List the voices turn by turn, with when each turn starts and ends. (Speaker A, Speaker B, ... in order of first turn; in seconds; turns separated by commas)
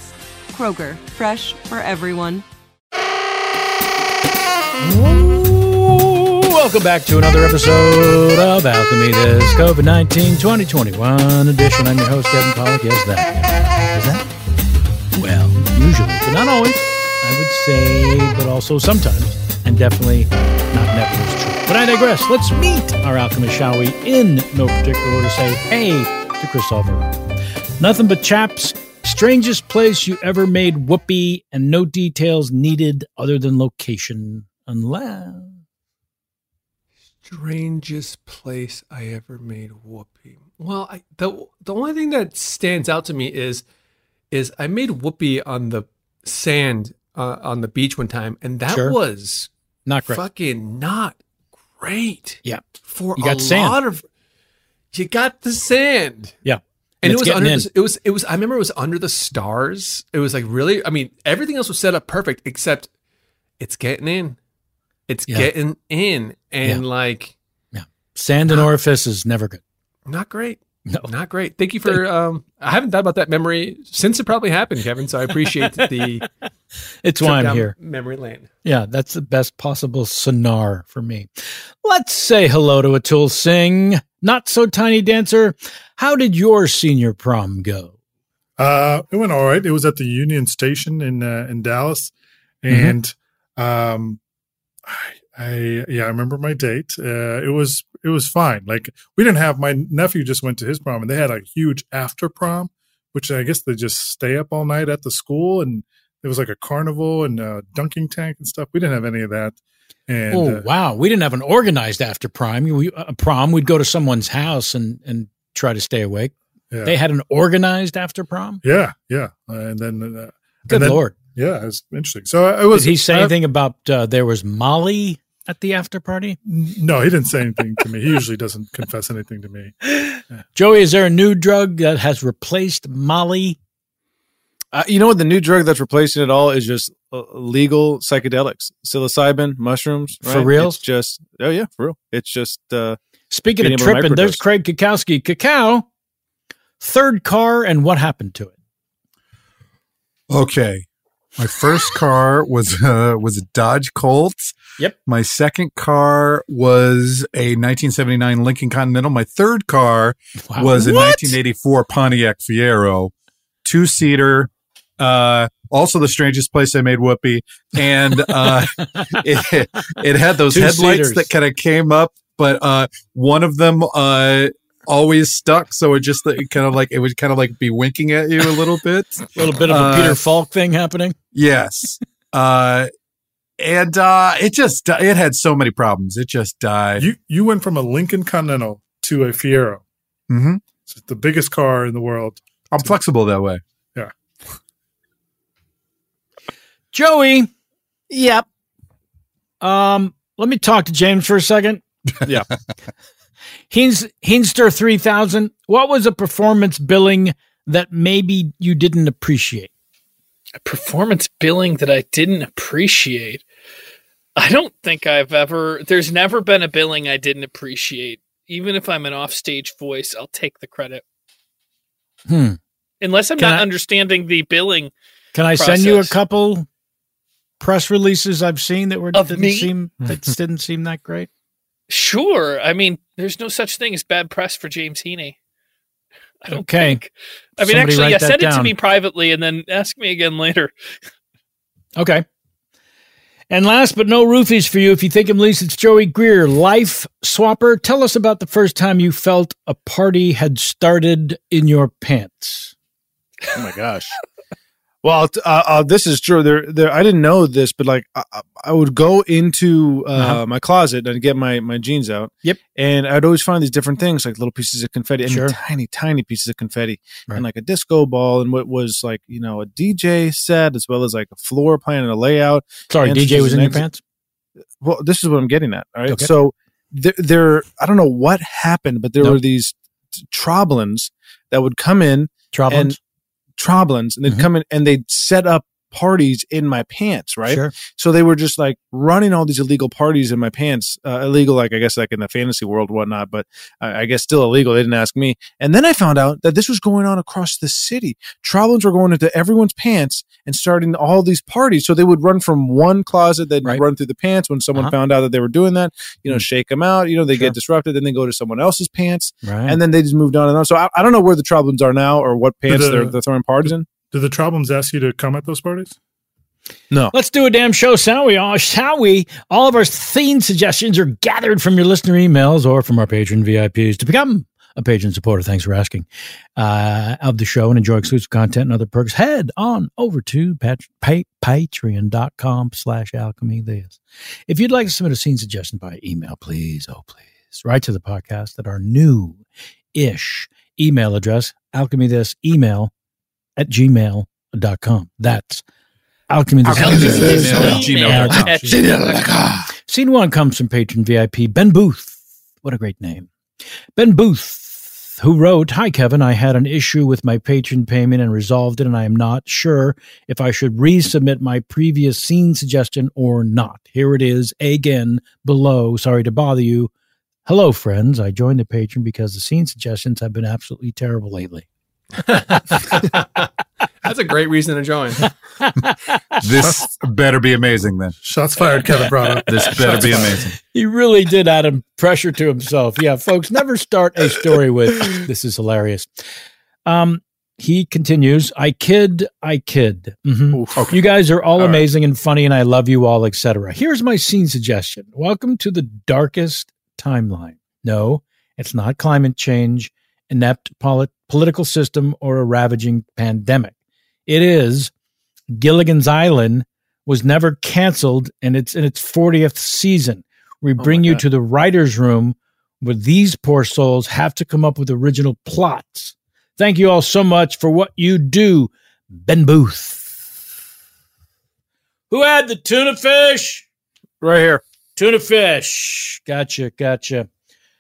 Speaker A: 0.5-2.5, Speaker B: 4.8-14.2, Speaker B: 15.2-27.1, Speaker B: 27.8-35.6, Speaker C: 37.2-43.6, Speaker C: 44.3-49.5, Speaker B: 48.7-49.0, Speaker B: 49.9-50.2, Speaker C: 50.1-51.2, Speaker C: 51.8-54.0, Speaker B: 53.2-53.8, Speaker C: 54.9-56.4, Speaker B: 56.4-57.7, Speaker C: 57.0-62.9, Speaker C: 63.6-64.4, Speaker C: 65.1-67.3, Speaker B: 67.7-69.6, Speaker C: 70.1-76.3, Speaker B: 70.9-71.1, Speaker B: 77.0-77.8, Speaker C: 77.2-78.5, Speaker B: 78.6-81.3, Speaker B: 81.8-88.0, Speaker D: 88.6-94.2, Speaker B: 92.7-93.0, Speaker D: 94.8-110.7, Speaker B: 110.3-116.3, Speaker B: 116.8-118.6, Speaker D: 118.6-123.3, Speaker B: 120.7-121.1, Speaker B: 122.7-126.4, Speaker D: 126.5-129.8, Speaker B: 130.6-133.6, Speaker E: 134.7-143.0, Speaker B: 140.2-140.8, Speaker B: 143.3-145.9, Speaker E: 143.6-144.4, Speaker B: 146.8-148.6, Speaker F: 150.3-150.9, Speaker F: 151.4-163.1, Speaker B: 160.5-161.4, Speaker F: 163.7-180.2, Speaker B: 170.5-171.3, Speaker B: 179.3-181.2, Speaker F: 181.3-182.9, Speaker F: 183.6-187.1, Speaker D: 187.0-189.8, Speaker F: 190.3-190.6, Speaker D: 190.8-192.4, Speaker F: 192.7-193.6, Speaker B: 196.9-197.5, Speaker E: 198.1-198.4, Speaker B: 199.6-202.4, Speaker B: 203.7-209.7, Speaker G: 210.6-213.4, Speaker G: 214.4-221.0, Speaker B: 222.3-222.6, Speaker G: 223.0-224.9, Speaker B: 223.4-223.7, Speaker B: 225.3-226.7, Speaker G: 225.5-226.1, Speaker B: 227.6-231.3, Speaker G: 229.1-229.7, Speaker G: 231.9-235.4, Speaker G: 236.4-240.7, Speaker B: 236.5-237.0, Speaker B: 237.6-238.7, Speaker B: 242.0-242.2, Speaker B: 243.5-252.7, Speaker E: 253.6-254.1, Speaker E: 255.0-273.9, Speaker B: 260.1-260.4, Speaker B: 265.3-265.6, Speaker B: 272.9-274.0, Speaker E: 274.8-279.7, Speaker E: 280.2-283.0, Speaker B: 282.5-283.0, Speaker E: 283.6-313.9, Speaker B: 287.5-287.8, Speaker B: 309.4-309.8, Speaker D: 312.7-315.9, Speaker B: 317.1-326.1, Speaker B: 326.6-339.4, Speaker B: 339.9-342.9, Speaker B: 343.6-345.6, Speaker B: 346.3-348.6, Speaker F: 346.7-348.7, Speaker G: 346.7-349.3, Speaker E: 346.8-349.6, Speaker B: 349.9-353.3, Speaker B: 354.0-366.9, Speaker B: 367.5-371.7, Speaker C: 372.3-373.2, Speaker B: 372.5-373.1, Speaker C: 374.0-375.3, Speaker B: 375.6-376.4, Speaker F: 376.4-378.2, Speaker D: 378.2-380.4, Speaker F: 379.5-380.6, Speaker B: 379.6-386.1, Speaker B: 386.9-403.8, Speaker E: 390.5-390.9, Speaker E: 391.6-391.8, Speaker B: 404.3-404.9, Speaker B: 405.5-420.3, Speaker E: 410.8-411.2, Speaker B: 422.1-423.6, Speaker E: 424.2-424.6, Speaker B: 425.0-427.3